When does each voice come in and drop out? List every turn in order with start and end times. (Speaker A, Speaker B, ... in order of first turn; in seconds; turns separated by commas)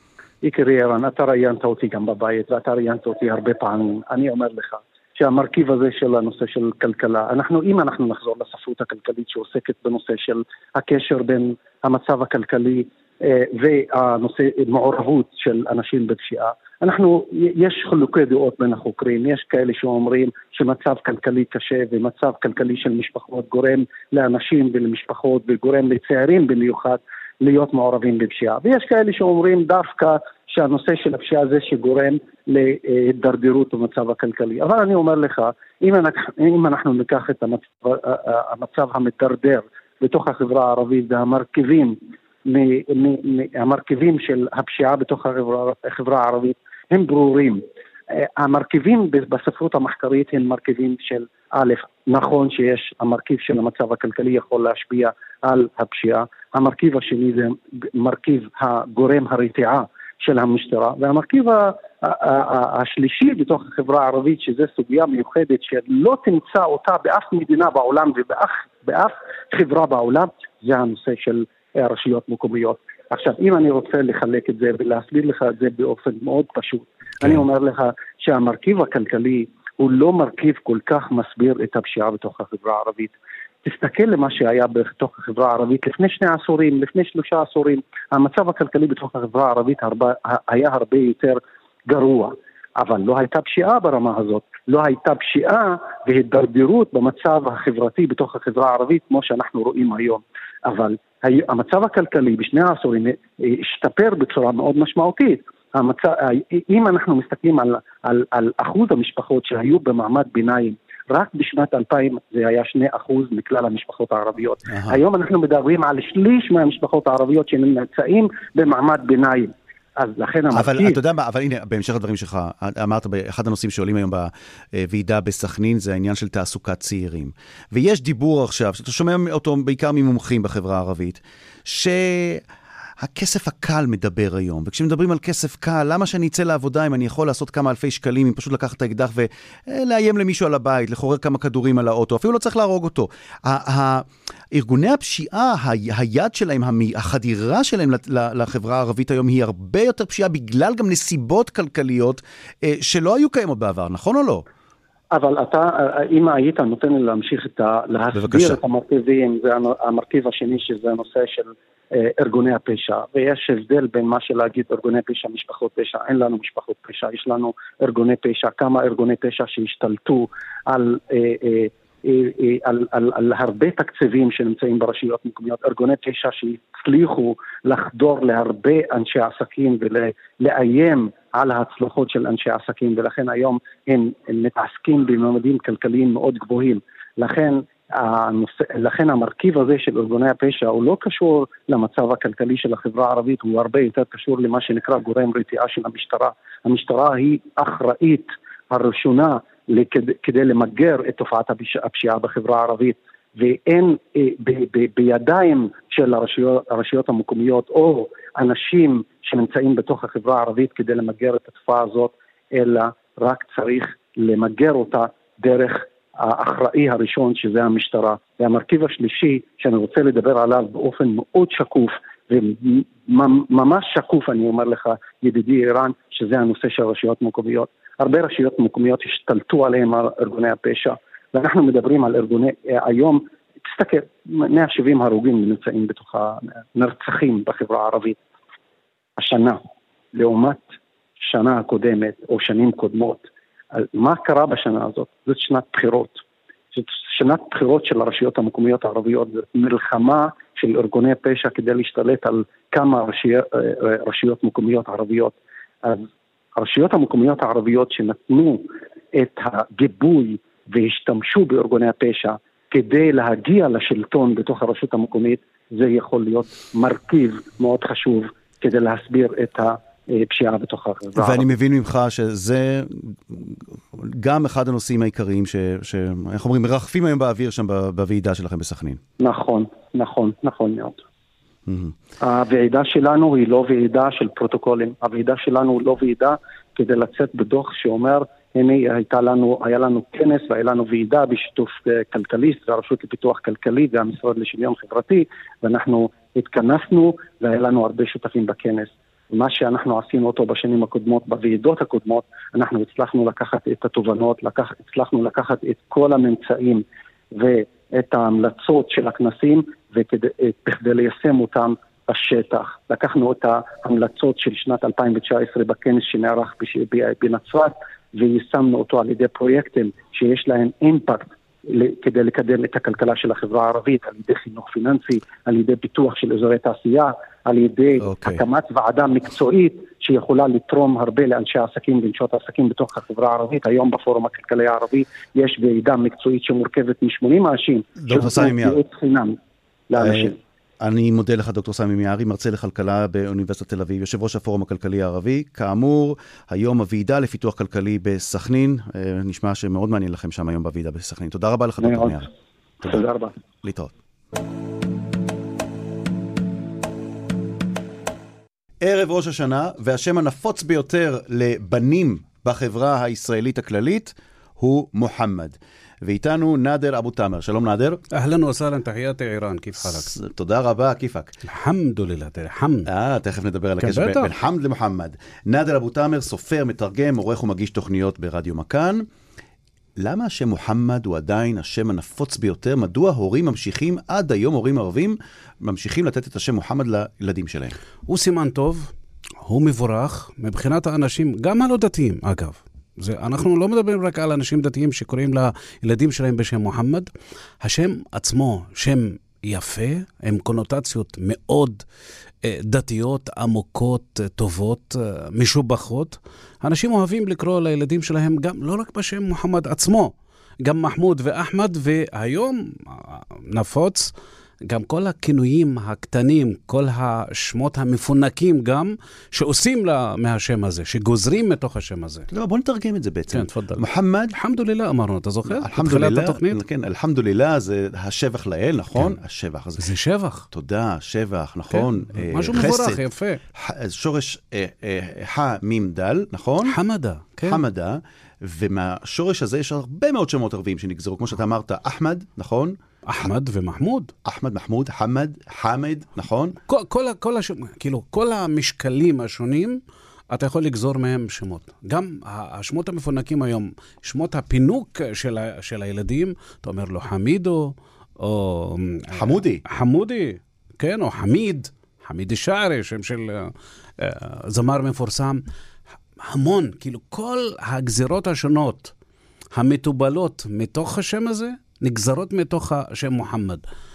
Speaker A: 0.4-121.0, Speaker B: 114.7-115.0, Speaker B: 120.5-132.4, Speaker B: 133.0-154.4, Speaker A: 155.1-238.2, Speaker B: 158.1-158.6, Speaker A: 239.2-239.6, Speaker A: 240.1-246.2, Speaker A: 246.7-271.4, Speaker B: 271.2-279.0, Speaker A: 279.2-281.0, Speaker B: 281.7-282.0, Speaker A: 282.2-339.4, Speaker B: 328.0-328.4, Speaker B: 338.0-338.8, Speaker A: 339.9-340.4, Speaker B: 340.0-352.3, Speaker A: 351.8-352.2, Speaker B: 352.8-353.1, Speaker A: 352.9-353.3, Speaker B: 353.6-353.9, Speaker B: 358.8-368.0, Speaker C: 368.1-370.1, Speaker B: 369.8-371.3, Speaker C: 371.5-372.9, Speaker B: 372.9-379.1, Speaker C: 373.8-374.3, Speaker B: 380.0-387.8, Speaker C: 388.1-388.9, Speaker C: 389.4-397.1, Speaker C: 397.6-401.8, Speaker C: 402.4-414.1, Speaker C: 414.7-422.3, Speaker B: 422.3-424.4, Speaker C: 423.3-426.6, Speaker B: 425.5-429.9, Speaker C: 429.8-430.5, Speaker B: 430.5-433.0, Speaker C: 431.7-433.4, Speaker B: 433.6-436.8, Speaker C: 436.7-437.6, Speaker B: 437.4-442.8, Speaker C: 443.1-444.1, Speaker B: 444.2-446.6, Speaker C: 446.7-449.8, Speaker C: 450.3-465.4, Speaker B: 459.1-459.6, Speaker C: 466.2-468.9, Speaker C: 469.6-473.6